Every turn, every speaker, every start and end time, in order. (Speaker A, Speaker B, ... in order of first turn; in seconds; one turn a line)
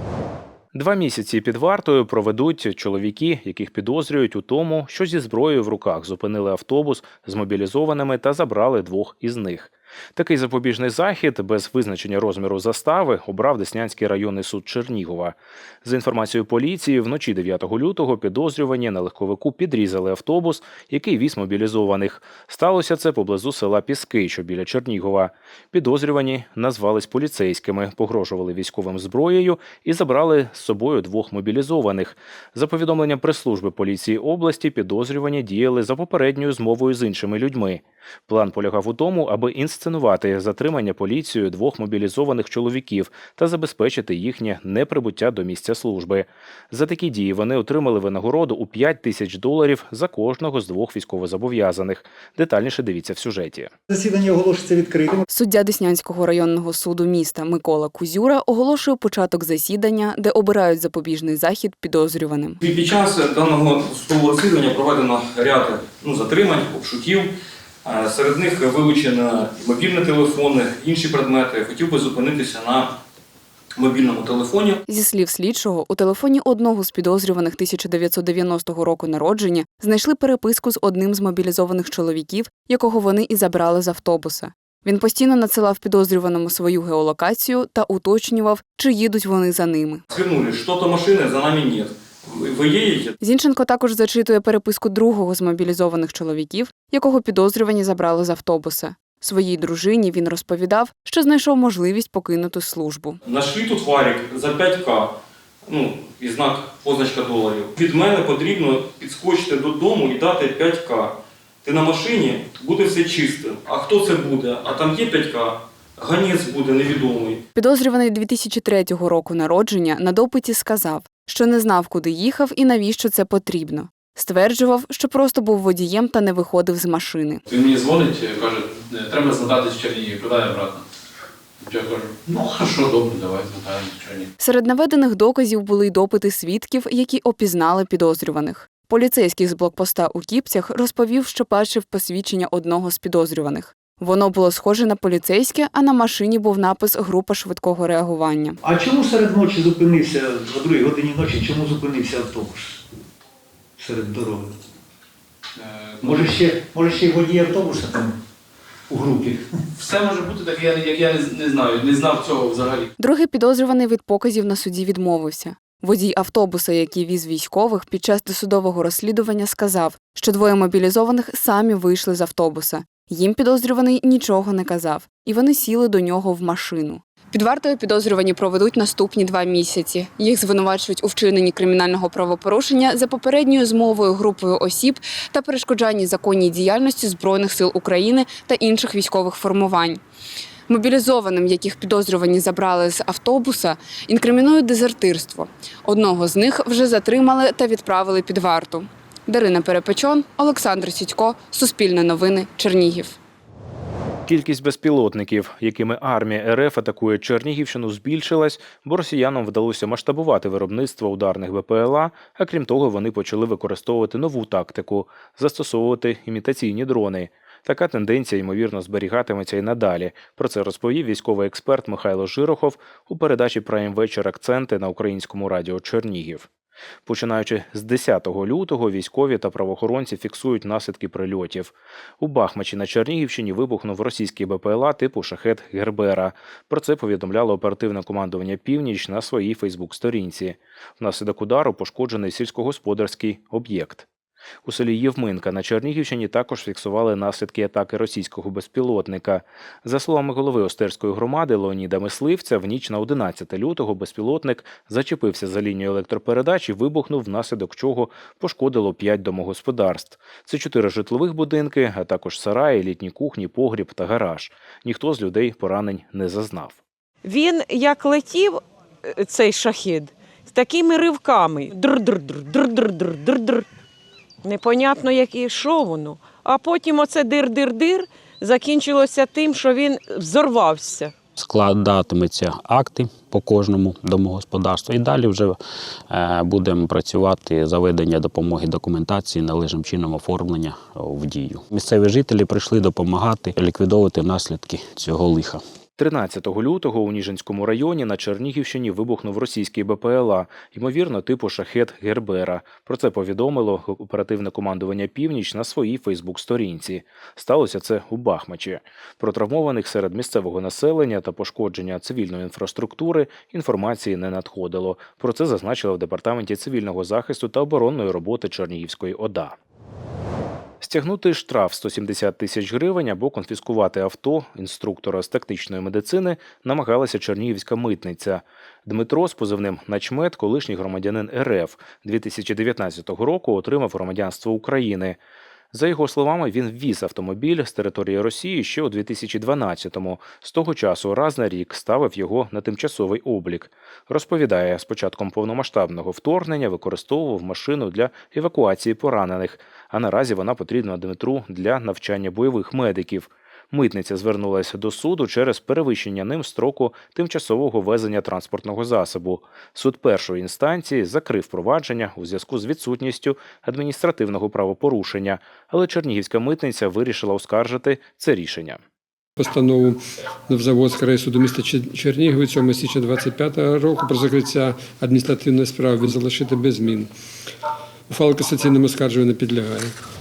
Speaker A: 0.7-53.7
Speaker B: 53.9-55.2
Speaker C: 55.3-62.6
Speaker D: 62.6-67.3
Speaker D: 67.8-72.9
Speaker D: 73.8-74.8
Speaker C: 74.9-90.0
Speaker D: 90.1-93.1
Speaker C: 93.2-103.2
Speaker D: 103.2-105.1
Speaker D: 105.7-117.4
Speaker C: 117.5-127.4
Speaker E: 127.5-130.8
Speaker E: 131.6-134.2
Speaker C: 134.4-148.6
Speaker B: 148.6-152.8
Speaker B: 153.8-154.5
Speaker B: 156.0-158.1
Speaker B: 158.9-159.4
Speaker E: 159.8-162.8
Speaker C: 163.0-190.0
Speaker C: 190.7-203.2
Speaker A: 204.3-226.5
Speaker A: 227.1-244.1
Speaker A: 244.6-266.8
Speaker F: 267.2-273.6
Speaker F: 274.4-281.1
Speaker G: 281.4-285.6
Speaker G: 286.1-295.6
Speaker A: 296.0-319.5
Speaker A: 320.8-335.2
Speaker A: 335.7-368.8
Speaker H: 369.4-377.1
Speaker H: 378.1-379.9